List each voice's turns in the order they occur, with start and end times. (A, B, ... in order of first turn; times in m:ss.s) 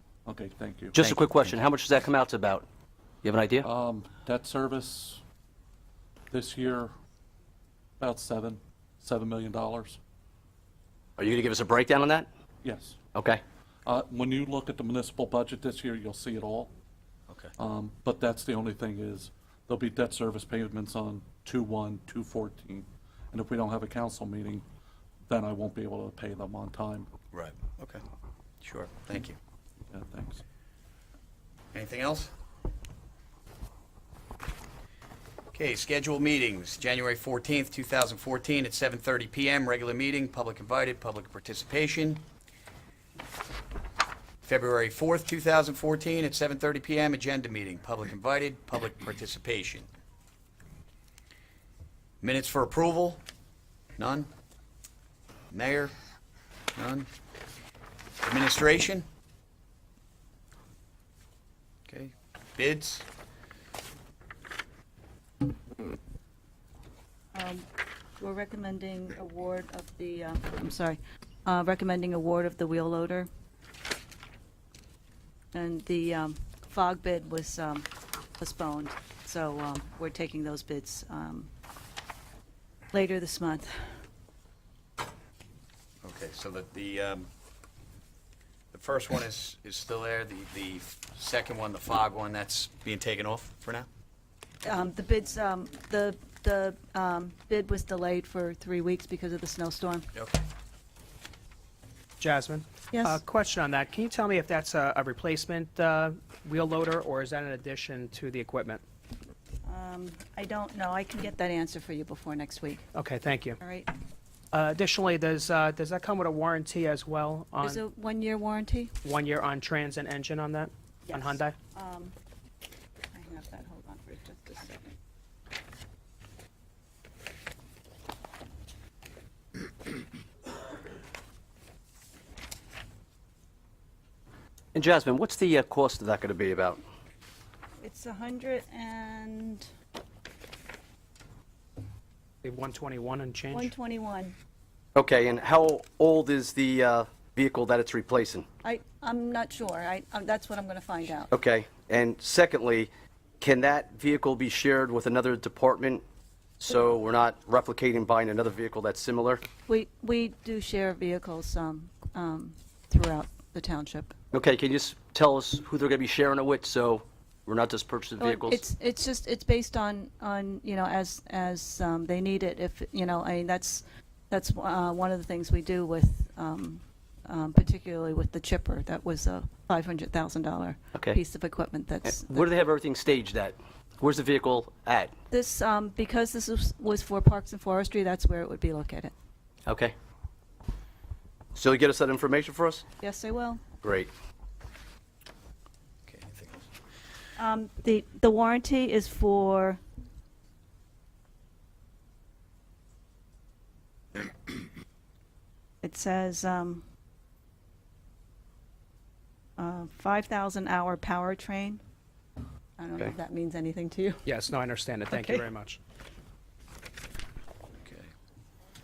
0:00.3-0:01.0 A
0:00.9-0:02.6 B
0:03.2-0:03.7 B
0:03.6-0:05.2 A
0:06.3-0:06.9 A
0:08.0-0:10.0 A
0:11.2-0:12.3 B
0:12.6-0:13.0 A
0:13.2-0:13.4 B
0:13.9-0:16.7 A
0:17.6-0:24.6 A
0:25.3-0:27.1 A
0:27.3-0:28.0 C
0:28.6-0:29.4 C
0:29.9-0:30.4 A
0:31.7-0:32.3 C
0:35.5-0:42.3 C
0:44.4-0:49.9 C
0:52.2-0:53.2 C
0:54.0-0:54.3 C
0:55.5-0:56.0 C
0:56.8-0:57.1 C
0:58.2-0:59.1 C
1:01.9-1:03.1 C
1:07.3-1:07.6 D
1:08.2-1:13.3 D
1:15.5-1:21.5 D
1:22.9-1:23.7 D
1:26.0-1:27.3 C
1:28.7-1:33.9 C
1:34.6-1:40.1 D
1:40.1-1:40.4 C
1:42.2-1:48.8 E
1:42.9-1:43.2 D
1:49.6-1:52.8 D
1:52.9-1:53.6 E
1:53.6-1:53.9 D
1:54.5-1:57.8 E
1:57.6-1:58.9 D
1:59.0-2:01.6 E
2:01.1-2:02.1 D
2:03.1-2:04.9 D
2:14.7-2:16.8 B
2:17.8-2:19.7 D
2:22.4-2:23.7 E
2:23.5-2:24.4 D
2:25.0-2:28.5 B
2:28.6-2:31.3 D
2:31.3-2:36.0 B
2:36.6-2:39.4 B
2:39.7-2:44.1 D
2:44.3-2:48.6 B
2:48.2-3:02.5 D
3:00.9-3:01.2 B
3:02.0-3:05.1 B
3:05.3-3:09.1 D
3:09.7-3:09.9 B
3:11.6-3:12.8 B
3:13.0-3:13.6 D
3:13.8-3:14.1 B
3:16.1-3:16.7 C
3:17.4-3:19.8 D
3:25.8-3:26.8 D
3:29.6-3:31.8 D
3:32.8-3:34.2 D
3:34.3-3:35.8 E
3:37.8-3:38.1 C